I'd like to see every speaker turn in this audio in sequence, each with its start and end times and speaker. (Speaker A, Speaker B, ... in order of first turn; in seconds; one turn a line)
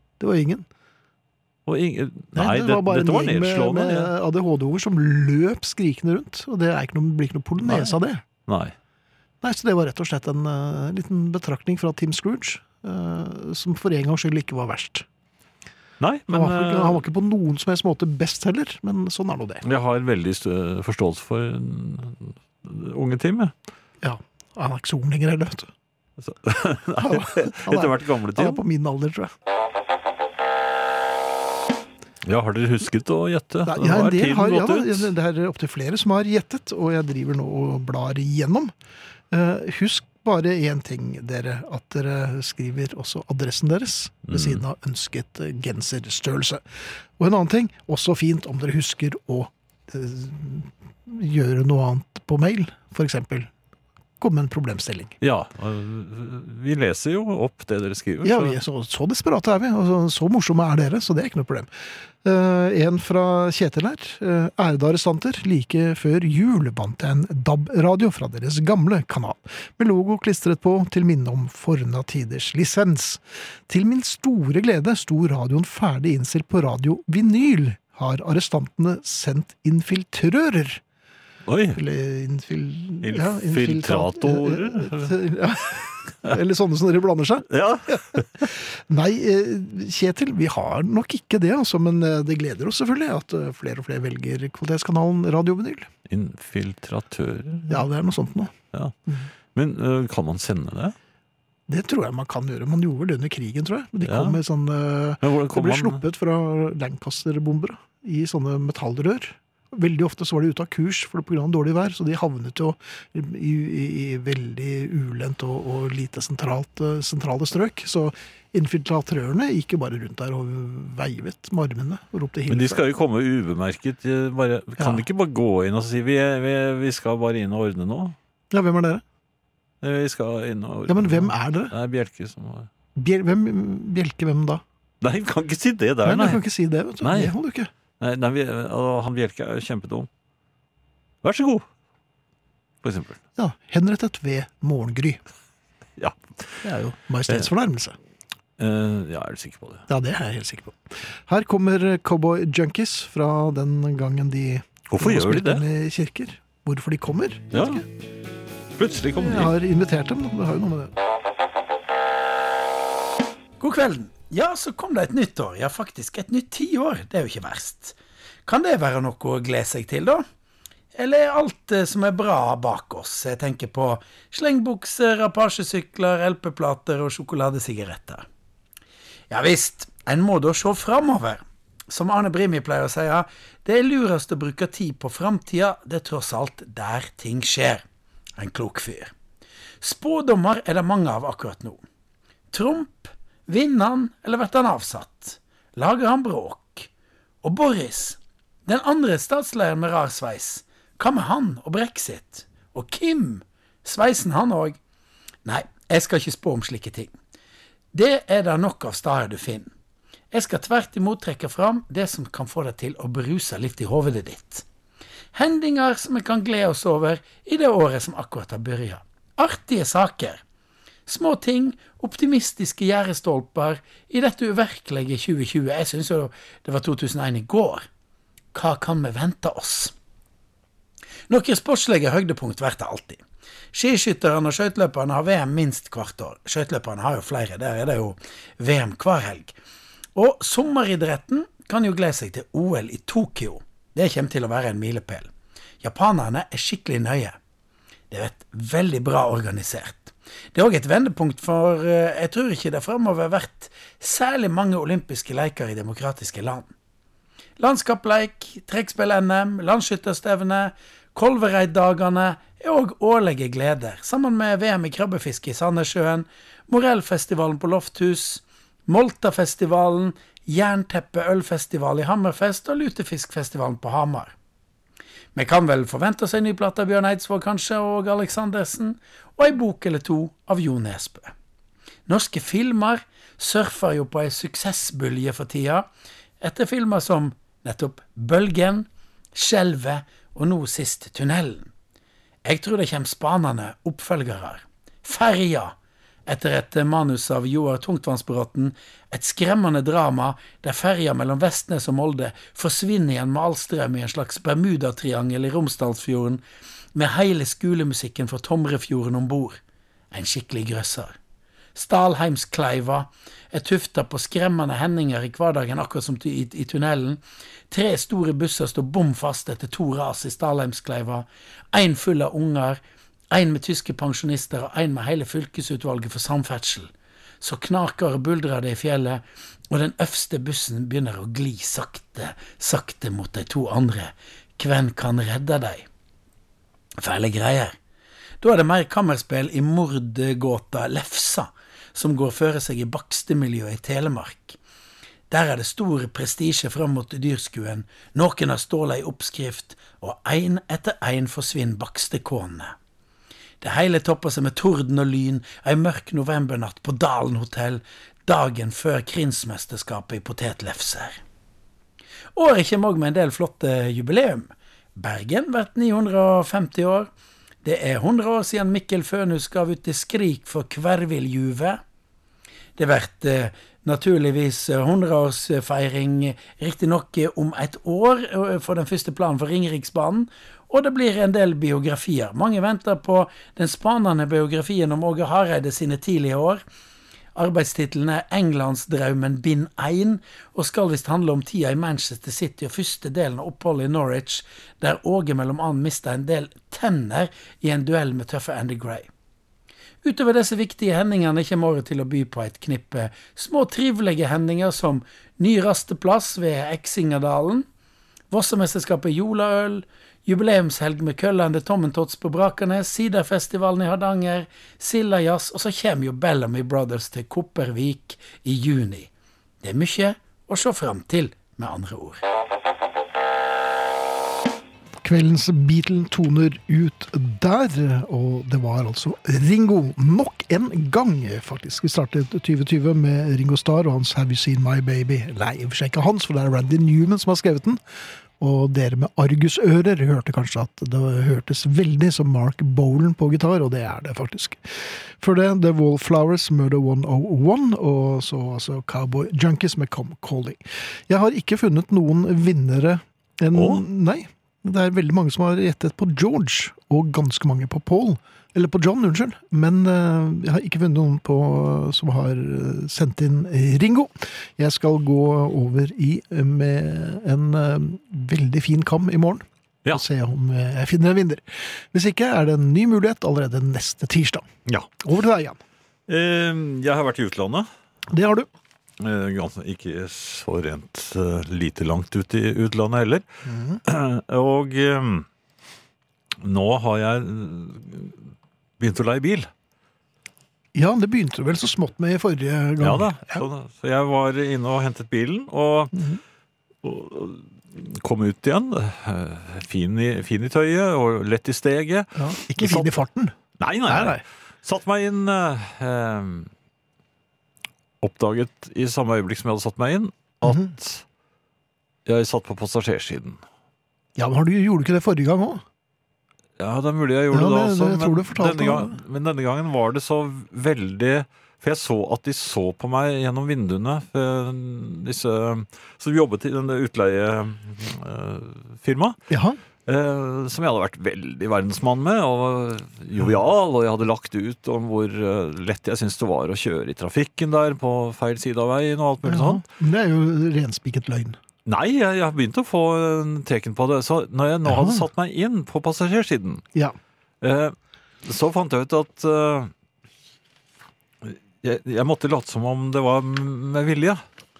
Speaker A: 0.2-0.7
Speaker B: 1.6-4.1
Speaker A: 2.3-8.2
Speaker B: 7.6-7.9
Speaker B: 8.5-8.7
Speaker A: 9.4-15.1
Speaker B: 16.0-17.0
Speaker A: 16.3-19.6
Speaker B: 19.6-23.5
Speaker A: 24.0-25.7
Speaker B: 26.2-28.6
Speaker A: 27.0-29.3
Speaker B: 32.2-35.1
Speaker A: 33.6-38.7
Speaker A: 39.3-46.6
Speaker B: 44.3-44.6
Speaker A: 47.2-53.5
Speaker A: 54.2-55.1
Speaker B: 55.2-58.5
Speaker A: 58.2-61.7
Speaker A: 62.2-80.8
Speaker B: 81.5-81.8
Speaker A: 81.7-95.9
Speaker B: 83.0-85.1
Speaker B: 87.5-88.4
Speaker B: 96.1-97.8
Speaker A: 97.7-98.5
Speaker B: 99.5-101.0
Speaker A: 101.7-122.8
Speaker B: 104.0-104.4
Speaker B: 105.2-106.0
Speaker B: 122.5-128.2
Speaker A: 124.8-125.0
Speaker A: 128.5-129.0
Speaker B: 129.8-132.7
Speaker A: 130.9-131.7
Speaker A: 132.9-134.6
Speaker B: 135.0-136.4
Speaker A: 136.0-137.7
Speaker B: 137.0-137.3
Speaker B: 138.0-140.1
Speaker B: 141.2-141.7
Speaker B: 142.8-143.2
Speaker A: 143.3-145.2
Speaker B: 146.0-146.3
Speaker A: 146.6-147.9
Speaker B: 148.6-149.8
Speaker A: 149.9-157.9
Speaker B: 154.9-155.6
Speaker B: 157.5-157.8
Speaker B: 158.8-159.5
Speaker A: 159.2-160.9
Speaker C: 163.6-170.2
Speaker C: 170.9-178.2
Speaker C: 179.3-187.8
Speaker C: 188.4-189.1
Speaker C: 189.8-191.8
Speaker C: 192.5-196.9
Speaker C: 197.4-204.8
Speaker C: 205.4-207.1
Speaker C: 207.9-209.7
Speaker C: 210.3-214.6
Speaker C: 215.3-220.4
Speaker C: 221.1-227.8
Speaker C: 228.5-229.9
Speaker C: 231.3-233.2
Speaker C: 233.7-239.5
Speaker C: 240.2-245.3
Speaker C: 245.8-247.4
Speaker C: 248.1-256.7
Speaker C: 257.6-274.3
Speaker C: 275.3-281.3
Speaker C: 282.1-285.9
Speaker C: 286.4-291.7
Speaker C: 292.4-295.7
Speaker C: 296.2-306.4
Speaker C: 306.9-309.6
Speaker C: 310.1-311.1
Speaker C: 311.7-335.9
Speaker C: 337.0-337.7
Speaker C: 338.4-344.6
Speaker C: 345.3-352.7
Speaker C: 353.6-361.2
Speaker C: 362.3-367.1
Speaker C: 367.6-371.8
Speaker C: 372.8-386.6
Speaker C: 387.3-399.1
Speaker C: 400.0-407.6
Speaker C: 408.3-419.1
Speaker C: 419.6-422.2
Speaker A: 425.0-437.8
Speaker A: 438.4-474.5
Speaker B: 453.5-453.8
Speaker A: 475.0-475.6
Speaker B: 476.1-477.7
Speaker A: 478.1-478.5
Speaker B: 479.0-483.2
Speaker A: 483.4-483.8
Speaker B: 483.8-485.2
Speaker B: 486.4-488.1
Speaker B: 488.8-489.5
Speaker A: 490.7-493.4
Speaker B: 492.8-496.0
Speaker A: 495.9-496.2
Speaker B: 496.8-502.9
Speaker A: 502.2-503.3
Speaker B: 503.6-506.5
Speaker A: 503.9-504.2
Speaker B: 508.0-511.0
Speaker A: 510.4-510.7
Speaker B: 512.0-513.4
Speaker A: 514.1-515.6
Speaker B: 516.6-529.2
Speaker A: 517.3-519.0
Speaker A: 529.3-529.6
Speaker B: 529.9-539.6
Speaker A: 539.2-541.4
Speaker B: 541.6-546.6
Speaker A: 544.6-545.1
Speaker B: 547.4-549.7
Speaker B: 551.2-554.2